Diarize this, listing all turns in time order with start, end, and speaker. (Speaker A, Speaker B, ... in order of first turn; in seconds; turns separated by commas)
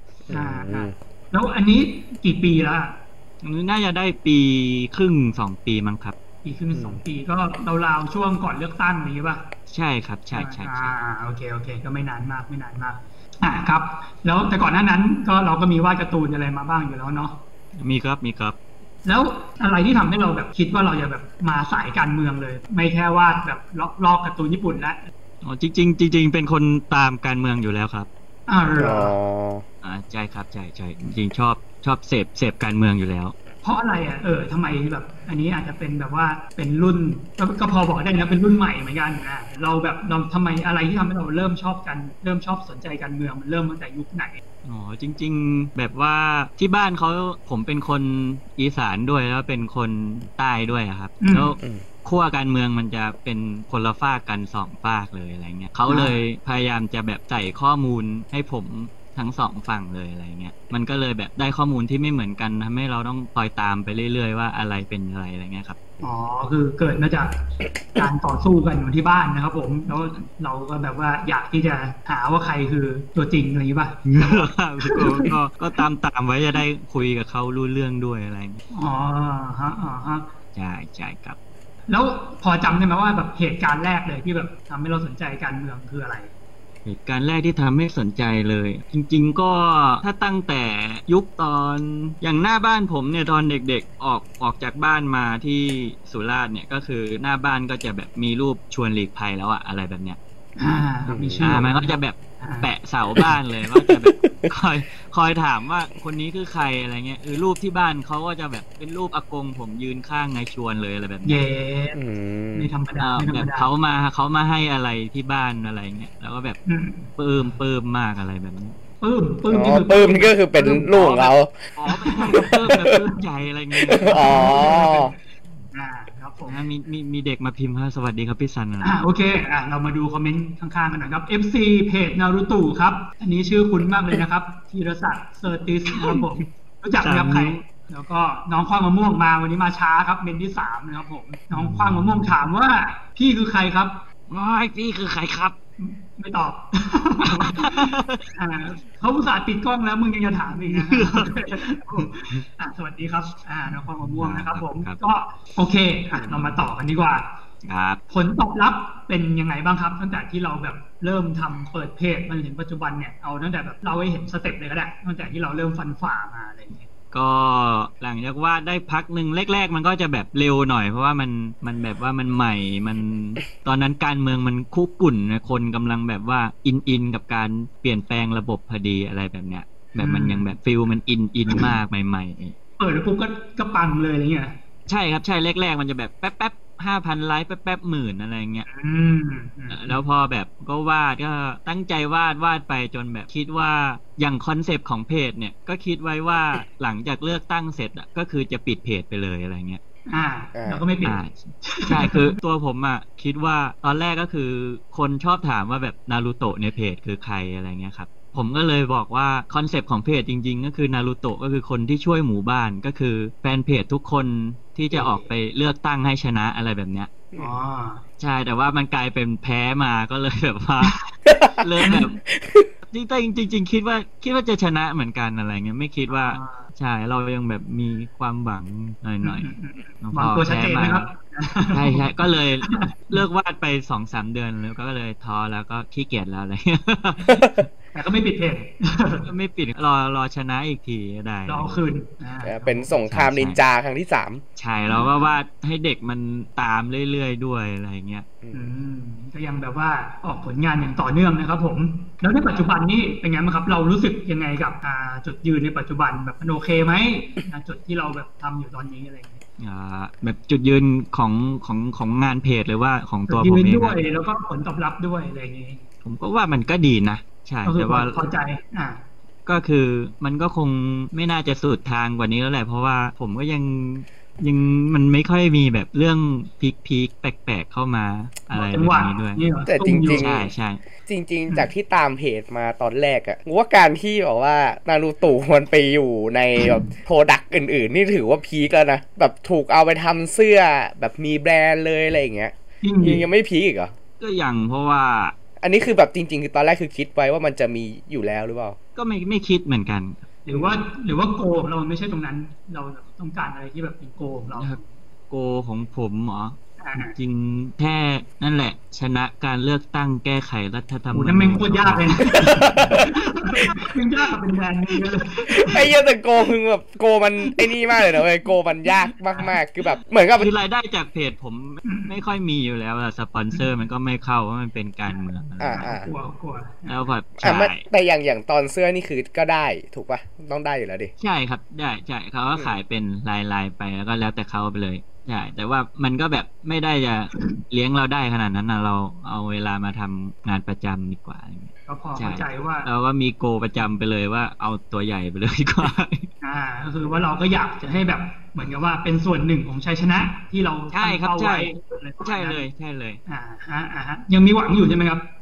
Speaker A: 0.3-0.9, Speaker B: 0.3-3.0, Speaker C: 3.4-6.1, Speaker B: 6.4-9.4, Speaker A: 6.7-7.0, Speaker C: 9.7-10.9, Speaker B: 10.3-17.4, Speaker C: 17.8-18.6, Speaker B: 19.1-25.0, Speaker C: 25.4-28.1, Speaker B: 28.5-29.1, Speaker A: 28.8-29.6, Speaker C: 29.8-33.3, Speaker B: 33.6-44.4, Speaker C: 44.6-65.8, Speaker B: 51.2-51.5, Speaker B: 55.9-56.1, Speaker B: 66.0-67.4, Speaker B: 67.9-75.3, Speaker C: 74.0-78.6, Speaker B: 78.7-80.3, Speaker C: 80.5-81.4, Speaker B: 81.9-86.3, Speaker C: 86.8-100.2, Speaker B: 100.6-102.7, Speaker A: 101.1-101.4, Speaker C: 101.4-111.4, Speaker B: 111.2-112.0, Speaker A: 111.9-112.7, Speaker B: 112.5-113.7, Speaker C: 113.0-116.6, Speaker B: 116.7-117.1, Speaker C: 117.2-118.8, Speaker B: 119.0-121.2, Speaker A: 119.5-121.6, Speaker C: 120.9-124.7, Speaker B: 121.9-122.9, Speaker A: 122.6-123.0, Speaker A: 123.9-125.1, Speaker B: 124.0-125.2, Speaker B: 125.7-126.6, Speaker C: 126.5-129.0, Speaker B: 128.8-144.0, Speaker C: 135.9-136.2, Speaker C: 137.0-137.6, Speaker C: 141.5-142.3, Speaker C: 144.3-145.5, Speaker B: 145.8-157.3, Speaker C: 147.4-148.2, Speaker C: 150.7-151.4, Speaker C: 154.0-155.0, Speaker A: 156.2-156.5, Speaker C: 157.6-158.0, Speaker B: 158.1-166.9, Speaker C: 167.1-182.5, Speaker B: 180.0-180.4, Speaker B: 182.8-184.6, Speaker C: 184.9-188.7, Speaker B: 188.7-190.0, Speaker C: 189.7-199.8, Speaker B: 200.1-202.3, Speaker A: 200.5-200.8, Speaker C: 201.0-217.1, Speaker B: 214.9-215.3, Speaker B: 217.3-218.0, Speaker C: 218.2-221.0, Speaker A: 221.3-221.5, Speaker C: 221.5-222.2, Speaker B: 221.8-222.1, Speaker A: 222.3-222.7, Speaker C: 222.9-229.5, Speaker B: 226.1-226.7, Speaker B: 229.2-232.1, Speaker C: 230.0-231.1, Speaker C: 231.7-237.6, Speaker B: 232.6-233.2, Speaker B: 237.9-239.3, Speaker C: 239.2-241.8, Speaker B: 241.5-242.9, Speaker A: 242.4-244.4, Speaker C: 243.1-243.6, Speaker C: 244.6-248.2, Speaker A: 248.4-248.7, Speaker B: 248.5-259.4, Speaker C: 259.6-264.0, Speaker B: 263.3-265.8, Speaker C: 266.0-268.2, Speaker B: 267.6-269.0, Speaker C: 269.4-279.4, Speaker B: 278.5-280.3, Speaker A: 279.6-280.5, Speaker C: 280.2-280.8, Speaker A: 281.1-293.9, Speaker B: 292.8-293.2, Speaker C: 294.2-295.3, Speaker A: 295.6-298.8, Speaker C: 298.9-300.2, Speaker B: 300.4-304.9, Speaker A: 300.5-300.8, Speaker C: 305.3-313.1, Speaker B: 306.8-307.1, Speaker B: 311.1-315.9, Speaker A: 312.3-313.1, Speaker A: 315.5-320.5, Speaker B: 317.5-318.2, Speaker C: 320.3-325.9, Speaker B: 321.8-322.2, Speaker A: 325.6-326.1, Speaker B: 325.7-327.0, Speaker C: 326.9-327.8, Speaker A: 327.4-331.1, Speaker C: 331.2-346.3, Speaker B: 341.9-342.9, Speaker B: 346.4-352.6, Speaker C: 350.9-353.2, Speaker B: 353.3-355.2